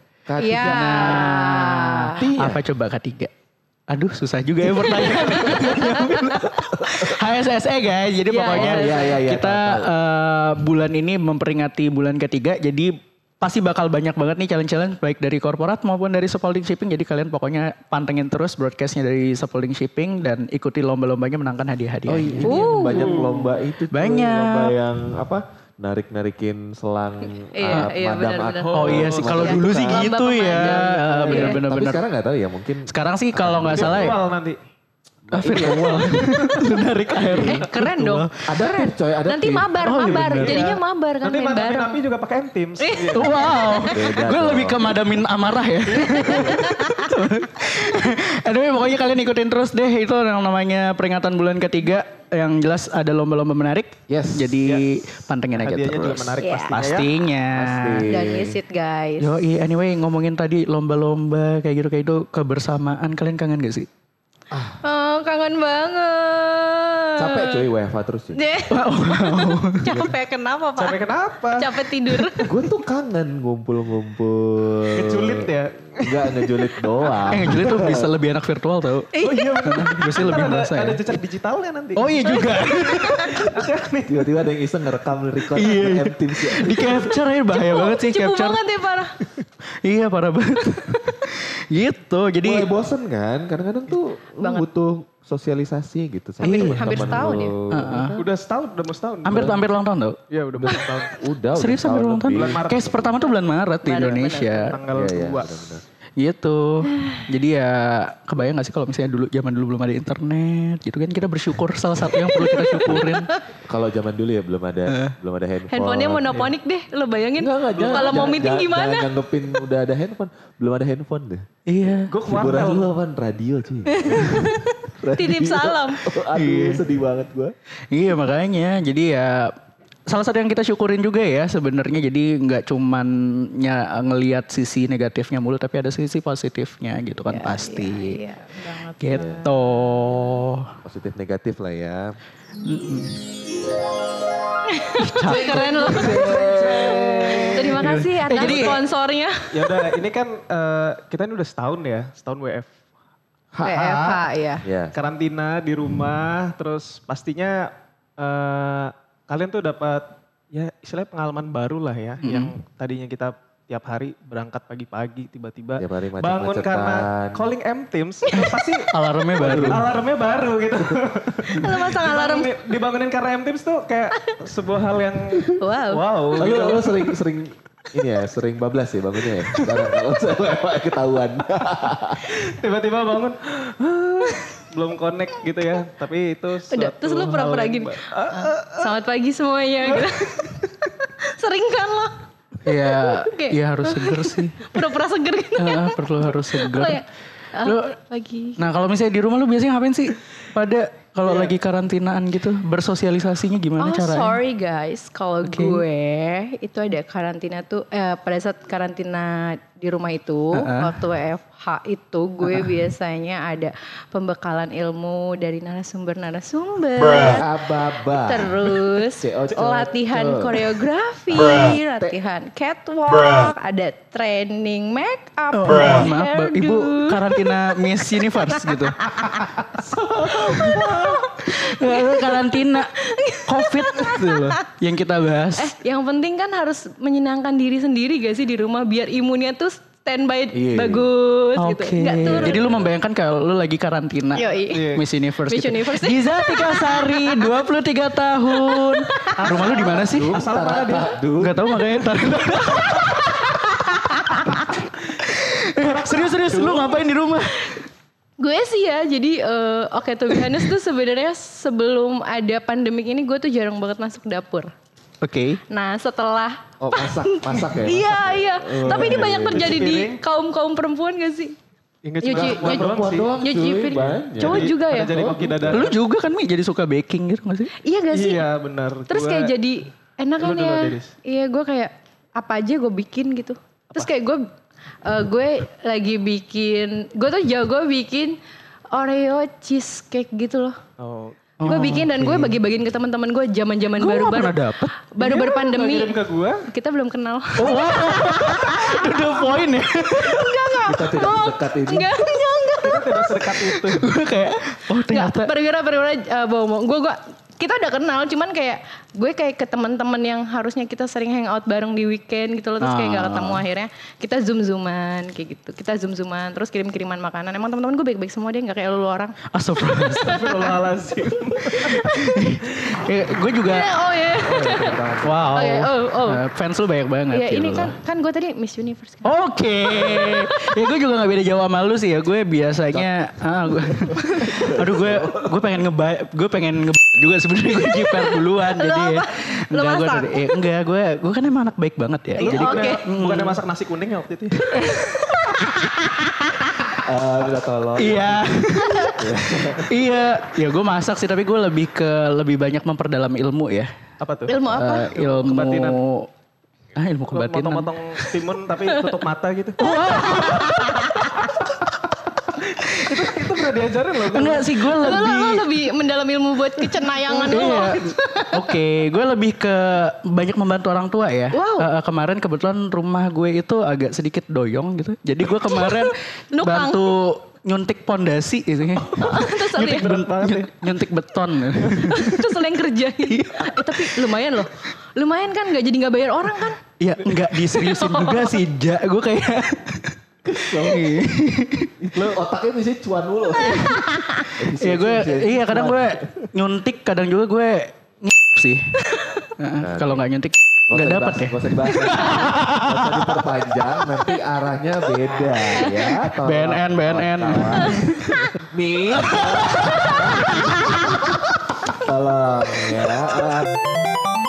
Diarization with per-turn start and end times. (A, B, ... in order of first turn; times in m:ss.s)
0:00.2-0:01.2 A
0:00.4-0:02.2 B
0:00.5-0:03.3 C
0:02.2-0:02.6 A
0:03.9-0:22.5 C
0:05.2-0:06.1 B
0:06.5-0:07.2 A
0:08.3-0:09.1 B
0:08.4-0:09.9 A
0:22.1-0:30.1 A
0:22.4-0:23.3 B
0:22.8-0:23.5 D
0:23.9-0:24.8 C
0:27.5-0:31.6 B
0:28.6-0:29.4 D
0:28.7-0:32.0 C
0:31.2-0:34.2 A
0:32.9-0:34.2 C
0:33.7-0:34.6 D
0:35.3-0:36.3 A
0:35.3-0:38.3 C
0:37.3-0:37.5 D
0:37.4-0:42.0 B
0:38.4-0:40.6 A
0:39.8-0:40.7 C
0:40.0-0:43.6 D
0:42.8-0:43.9 B
0:43.1-0:58.0 C
0:43.9-0:44.9 A
0:46.0-0:47.1 B
0:46.1-0:46.5 D
0:54.1-0:54.6 A
0:55.5-0:57.1 D
0:56.4-0:56.8 B
0:57.5-0:58.6 A
0:58.1-0:59.4 B
0:59.2-1:03.9 C
1:04.5-1:04.8 A
1:04.8-1:07.6 B
1:07.2-1:08.4 A
1:08.3-1:11.0 B
1:08.7-1:10.1 C
1:10.8-1:12.6 D
1:11.6-1:12.5 B
1:12.4-1:18.1 A
1:14.9-1:16.5 D
1:17.3-1:19.1 C
1:19.1-1:19.9 B
1:19.2-1:24.3 D
1:19.6-1:21.1 C
1:22.0-1:23.3 C
1:22.2-1:23.5 B
1:24.1-1:27.0 A
1:25.5-1:28.6 C
1:27.5-1:29.2 B
1:29.8-1:32.7 C
1:32.4-1:38.3 A
1:34.4-1:34.7 B
1:36.4-1:37.6 B
1:36.4-1:37.2 C
1:37.7-1:38.2 C
1:38.2-1:39.5 D
1:39.2-1:40.2 C
1:39.3-1:39.6 A
1:40.3-1:41.1 D
1:40.5-1:43.2 A
1:41.5-1:44.8 C
1:42.3-1:42.9 D
1:43.2-1:44.8 B
1:44.6-1:45.8 D
1:44.9-1:45.8 A
1:46.2-1:53.3 C
1:46.8-1:47.3 B
1:52.3-1:53.4 B
1:53.6-1:56.5 A
1:54.9-1:55.2 C
1:55.7-1:59.1 B
1:57.4-2:01.5 A
1:57.8-1:58.3 D
2:01.7-2:02.1 C
2:02.1-2:02.9 D
2:02.3-2:07.5 A
2:03.9-2:06.0 B
2:06.3-2:06.9 C
2:07.9-2:09.5 C
2:10.1-2:18.2 C
2:17.3-2:19.5 B
2:19.0-2:20.7 C
2:20.8-2:22.2 A
2:22.6-2:23.2 C
2:24.7-2:29.7 B
2:25.0-2:26.2 C
2:25.3-2:28.0 A
2:27.8-2:28.8 C
2:28.4-2:28.7 D
2:29.5-2:32.7 D
2:33.5-2:34.9 A
2:33.6-2:34.6 B
2:34.9-2:56.9 D
2:42.2-2:42.5 C
2:45.8-2:47.5 A
2:48.3-2:49.9 C
2:49.4-2:49.8 A
2:51.6-2:52.5 B
2:55.6-2:56.4 B
2:56.4-3:02.4 A
3:02.3-3:09.0 D
3:06.7-3:12.2 B
3:09.9-3:10.5 D
3:12.6-3:14.7 C
3:12.8-3:18.6 B
3:15.6-3:17.0 C
3:17.6-3:18.0 C
3:18.6-3:24.4 C
3:21.2-3:21.5 D
3:23.8-3:47.4 B
3:25.4-3:25.8 C
3:30.5-3:31.0 C
3:37.2-3:40.8 A
3:41.5-3:42.1 A
3:45.5-3:49.7 C
3:47.9-3:54.6 B
3:49.8-3:51.2 A
3:50.5-3:55.7 C
3:55.6-4:02.6 B
4:00.5-4:01.1 A
4:01.6-4:10.4 C
4:02.2-4:02.9 A
4:04.3-4:07.5 B
4:04.7-4:05.0 D
4:08.6-4:09.9 B
4:09.4-4:11.1 D
4:10.1-4:11.6 A
4:11.4-4:13.5 C
4:13.2-4:14.8 B
4:14.2-4:14.5 C
4:15.2-4:17.8 C
4:15.8-4:17.0 D
4:18.4-4:24.7 B
4:25.2-4:25.6 C
4:25.7-4:31.6 B
4:26.8-4:29.9 A
4:28.8-4:30.2 D
4:32.0-4:33.3 D
4:32.2-4:32.9 B
4:32.3-4:35.9 A
4:33.4-4:35.4 B
4:34.4-4:35.9 D
4:35.7-4:37.7 C
4:37.8-4:38.5 B
4:38.1-4:39.5 D
4:39.1-4:44.5 B
4:40.4-4:41.1 D
4:45.0-4:48.4 B
4:48.9-4:50.8 B
4:51.0-4:51.4 D
4:51.6-4:52.6 C
4:51.6-4:59.6 B
4:54.0-4:55.0 C
4:55.2-4:56.7 D
4:57.6-5:00.6 C
5:00.1-5:03.4 B
5:00.8-5:02.1 A
5:02.8-5:04.1 D
5:03.7-5:05.5 C
5:05.0-5:19.4 B
5:12.8-5:13.6 C
5:19.5-5:20.8 C
5:20.2-5:20.8 B
5:20.2-5:22.1 D
5:21.8-5:23.9 C
5:23.6-5:24.9 B
5:24.4-5:25.5 A
5:25.2-5:28.0 C
5:25.5-5:26.4 B
5:27.3-5:30.7 B
5:29.2-5:43.6 C
5:33.9-5:35.6 A
5:37.7-5:40.6 B
5:42.4-5:43.0 B
5:42.4-5:44.7 D
5:44.7-5:46.7 C
5:47.0-5:50.0 A
5:48.0-5:53.9 C
5:48.9-5:49.2 B
5:54.2-5:56.0 D
5:54.5-5:55.1 B
5:54.7-5:56.3 C
5:57.0-5:58.2 C
5:57.3-5:59.9 D
5:59.8-6:01.2 C
5:59.8-6:01.5 B
6:02.6-6:04.7 D
6:04.3-6:05.7 C
6:04.8-6:08.7 B
6:07.5-6:22.4 C
6:11.5-6:11.9 B
6:15.6-6:17.1 B
6:19.2-6:20.2 B
6:19.2-6:20.7 D
6:22.0-6:26.8 B
6:23.3-6:24.3 C
6:27.0-6:31.9 C
6:27.7-6:28.6 B
6:30.5-6:31.1 A
6:32.0-6:36.5 A
6:33.7-6:34.4 B
6:34.8-6:43.3 C
6:39.8-6:40.2 A
6:40.9-6:53.7 A
6:46.4-6:48.4 C